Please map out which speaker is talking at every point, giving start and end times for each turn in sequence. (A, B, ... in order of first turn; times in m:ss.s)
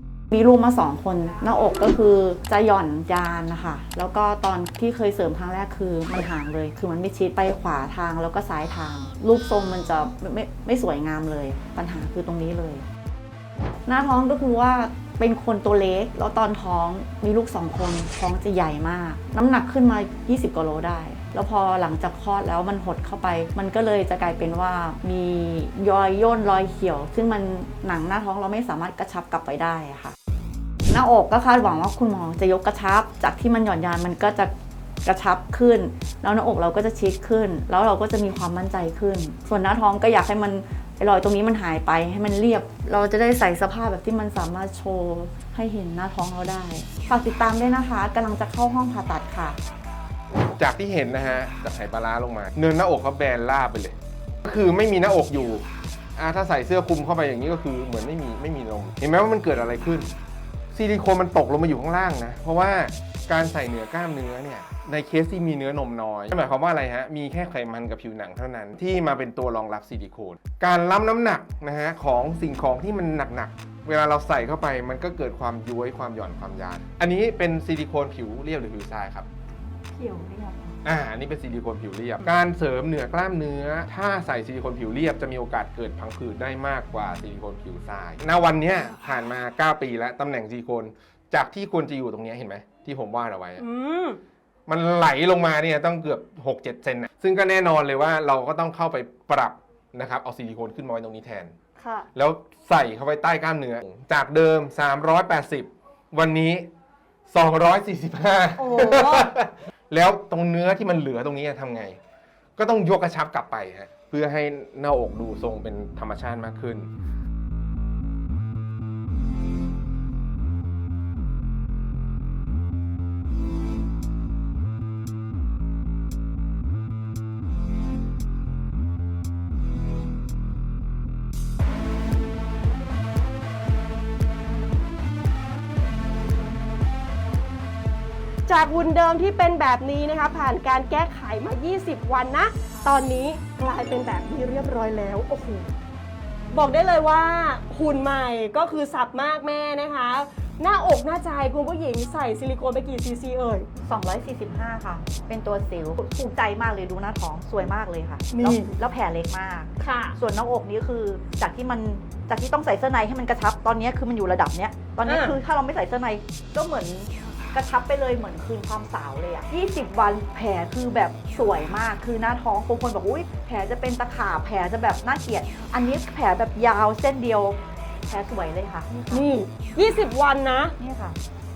0:00.3-0:12.8 A
0:13.9-0:30.2 A
0:30.9-0:34.5 A
0:35.0-0:49.6 A
0:50.6-1:00.1 B
1:00.7-1:19.3 B
1:20.0-1:20.6 A
1:20.8-1:33.6 B
1:33.6-1:34.2 C
1:34.7-1:41.5 B
1:41.8-1:42.1 C
1:42.2-1:46.7 B
1:47.3-1:52.0 B
1:48.6-1:49.3 C
1:52.6-1:56.9 B
2:18.5-2:25.7 C
2:26.5-2:33.7 C
2:33.8-2:59.3 A
2:38.3-2:38.7 C
2:39.8-2:40.2 C
2:45.1-2:45.4 C
2:59.1-3:00.8 C
3:00.8-3:01.2 A